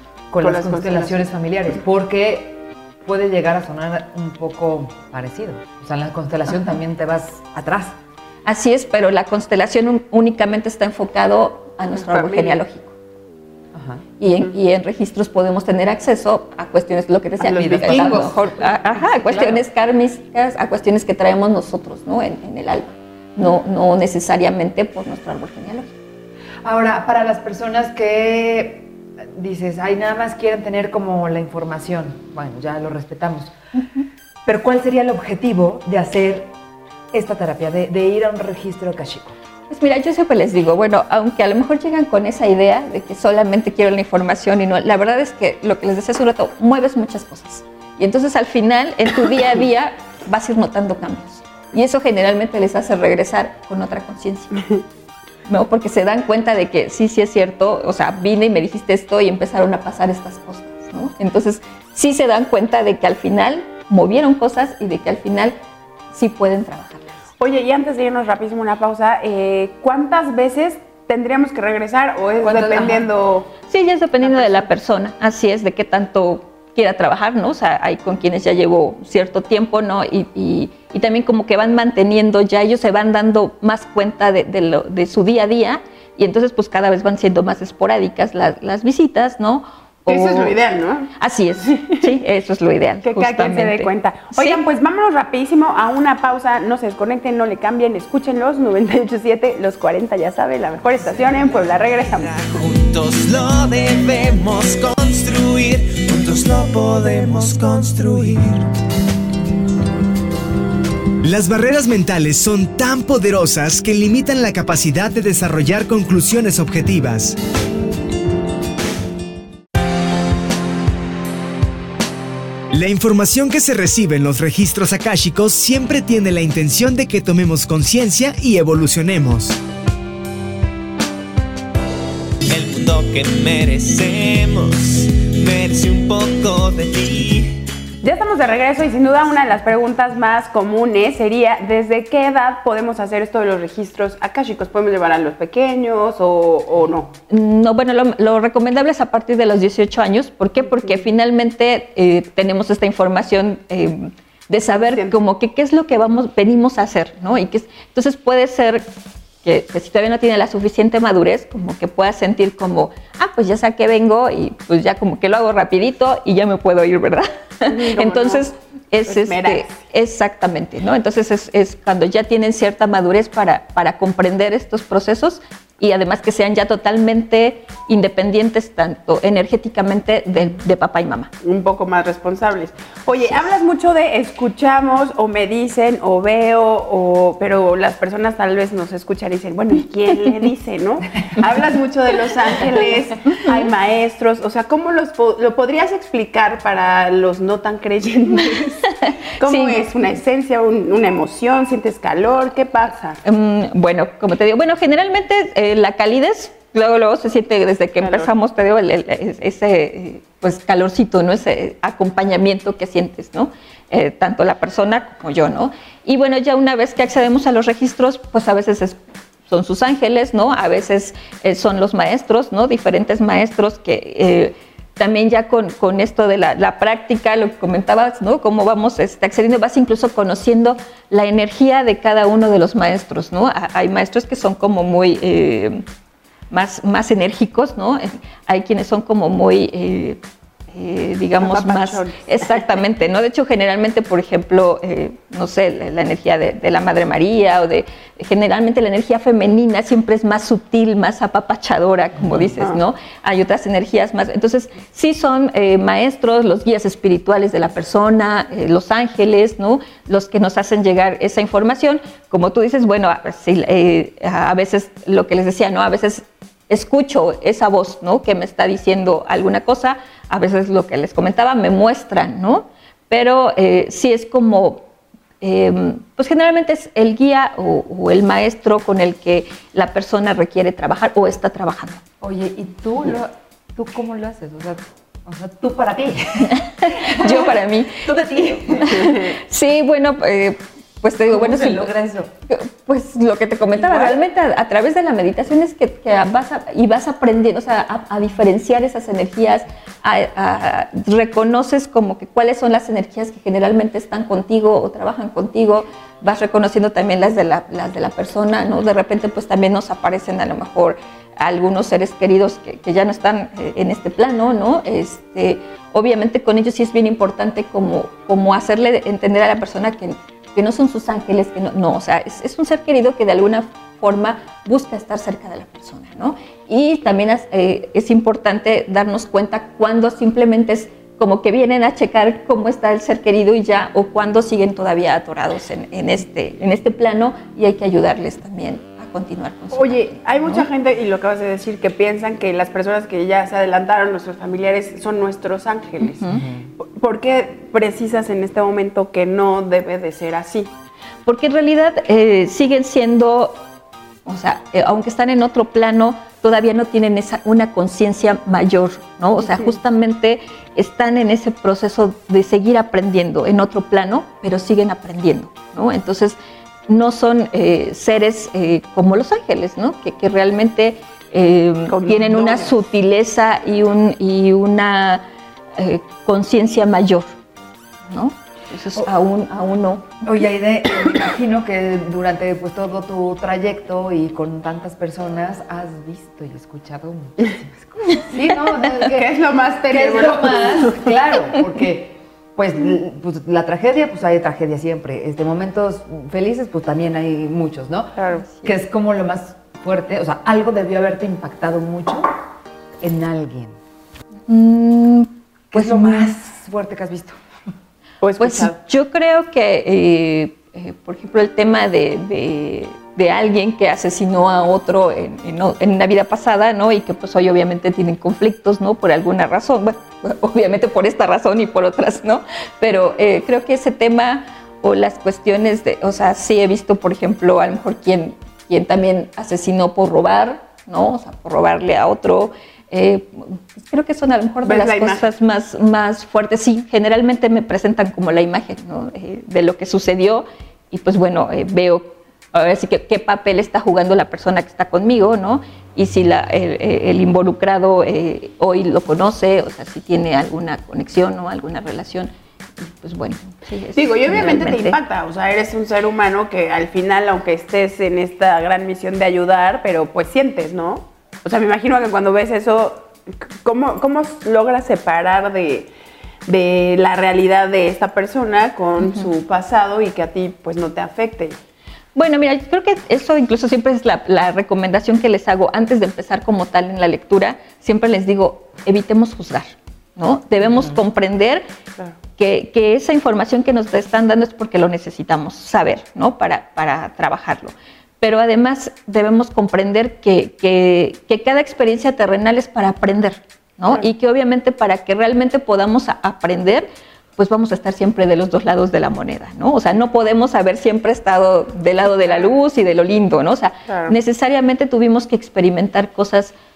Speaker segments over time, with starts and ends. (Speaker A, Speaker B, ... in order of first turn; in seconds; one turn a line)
Speaker A: 0.3-8.0
Speaker B: 0.4-1.3
Speaker C: 8.4-12.9
Speaker B: 11.9-12.6
Speaker A: 13.7-14.0
Speaker C: 14.2-25.9
Speaker B: 17.4-18.3
Speaker A: 17.5-19.6
Speaker A: 26.6-33.5
Speaker C: 33.8-34.0
Speaker A: 34.5-36.5
Speaker A: 37.1-39.4
Speaker C: 39.7-54.6
Speaker C: 55.5-65.6
Speaker C: 66.1-67.1
Speaker B: 67.4-73.5
Speaker A: 72.4-73.1
Speaker C: 73.7-90.5
Speaker B: 74.2-74.7
Speaker B: 90.0-91.1
Speaker C: 91.2-94.6
Speaker B: 91.6-92.0
Speaker B: 93.0-102.5
Speaker D: 101.0-108.7
Speaker E: 111.2-117.3
Speaker E: 122.7-129.6
Speaker D: 132.5-137.6
Speaker B: 138.0-147.1
Speaker C: 147.3-158.8
Speaker B: 150.7-151.0
Speaker B: 154.8-155.2
Speaker C: 159.4-181.3
Speaker B: 167.7-168.5
Speaker B: 169.1-169.8
Speaker B: 181.4-198.9
Speaker C: 199.0-199.8
Speaker B: 199.4-203.2
Speaker C: 203.2-219.0
Speaker B: 208.0-208.3
Speaker C: 219.5-235.8
Speaker C: 236.5-240.2
Speaker C: 240.7-274.8
Speaker B: 241.4-242.8
Speaker C: 275.4-282.0
Speaker A: 282.2-289.2
Speaker C: 286.4-291.9
Speaker A: 291.3-292.3
Speaker C: 292.5-340.7
Speaker A: 293.7-294.2
Speaker B: 339.7-346.2
Speaker C: 346.2-346.4
Speaker A: 346.2-346.7
Speaker B: 346.8-350.7
Speaker C: 351.2-353.6
Speaker C: 354.2-375.2
Speaker B: 371.9-372.7
Speaker C: 375.8-377.3
Speaker C: 378.1-380.1
Speaker A: 380.2-389.3
Speaker B: 388.7-391.1
Speaker A: 389.9-402.3
Speaker B: 398.2-398.4
Speaker A: 403.0-403.8
Speaker C: 404.5-406.3
Speaker A: 405.7-407.4
Speaker B: 408.2-408.8
Speaker C: 408.4-455.0
Speaker B: 434.6-435.2
Speaker B: 453.9-463.1
Speaker B: 463.6-465.9
Speaker B: 466.4-471.6
Speaker C: 469.0-469.3
Speaker C: 472.1-481.6
Speaker A: 480.6-480.9
Speaker C: 482.4-506.5
Speaker B: 502.2-502.5
Speaker B: 503.9-504.1